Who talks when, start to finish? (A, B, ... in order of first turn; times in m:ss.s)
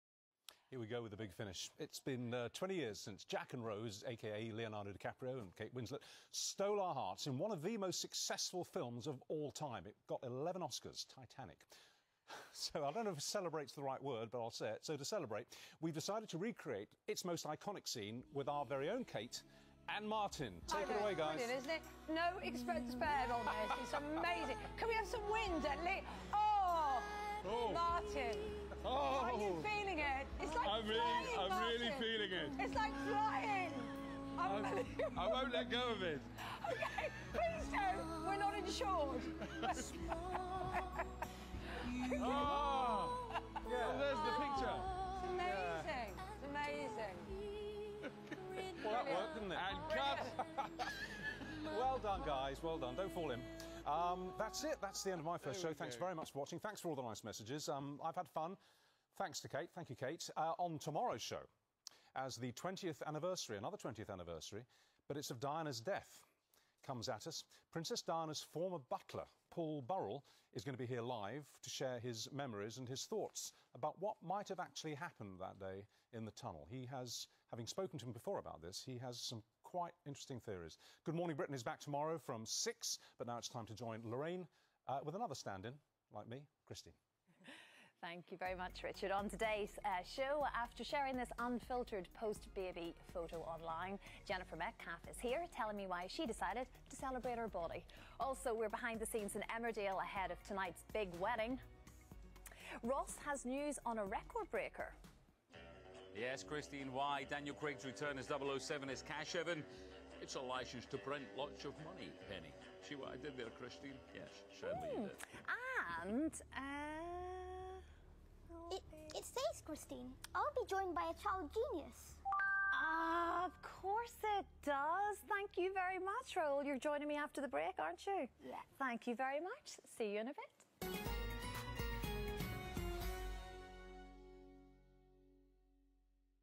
0:00.7-0:11.7 A
0:12.3-0:21.6 A
0:20.7-0:28.5 B
0:27.4-0:27.9 C
0:28.8-0:29.8 C
0:29.1-0:35.4 B
0:30.5-0:32.8 C
0:34.4-0:36.3 C
0:36.7-0:39.3 B
0:39.5-0:40.0 C
0:42.0-0:42.4 B
0:42.1-0:45.0 C
0:42.4-0:42.8 A
0:43.7-0:44.1 A
0:44.1-0:47.3 B
0:45.4-0:45.8 A
0:48.8-0:50.4 C
0:48.8-0:58.6 A
0:48.9-0:50.3 B
0:55.5-0:56.0 C
0:59.1-1:01.5 A
1:02.1-1:06.3 A
1:06.8-1:27.0 A
1:28.0-1:41.6 D
1:42.8-1:45.0 D
1:46.1-1:49.7 E
1:50.2-1:55.3 E
1:54.7-1:57.8 D
1:58.5-1:59.2 D
1:58.7-2:02.2 F
2:02.7-2:10.6 D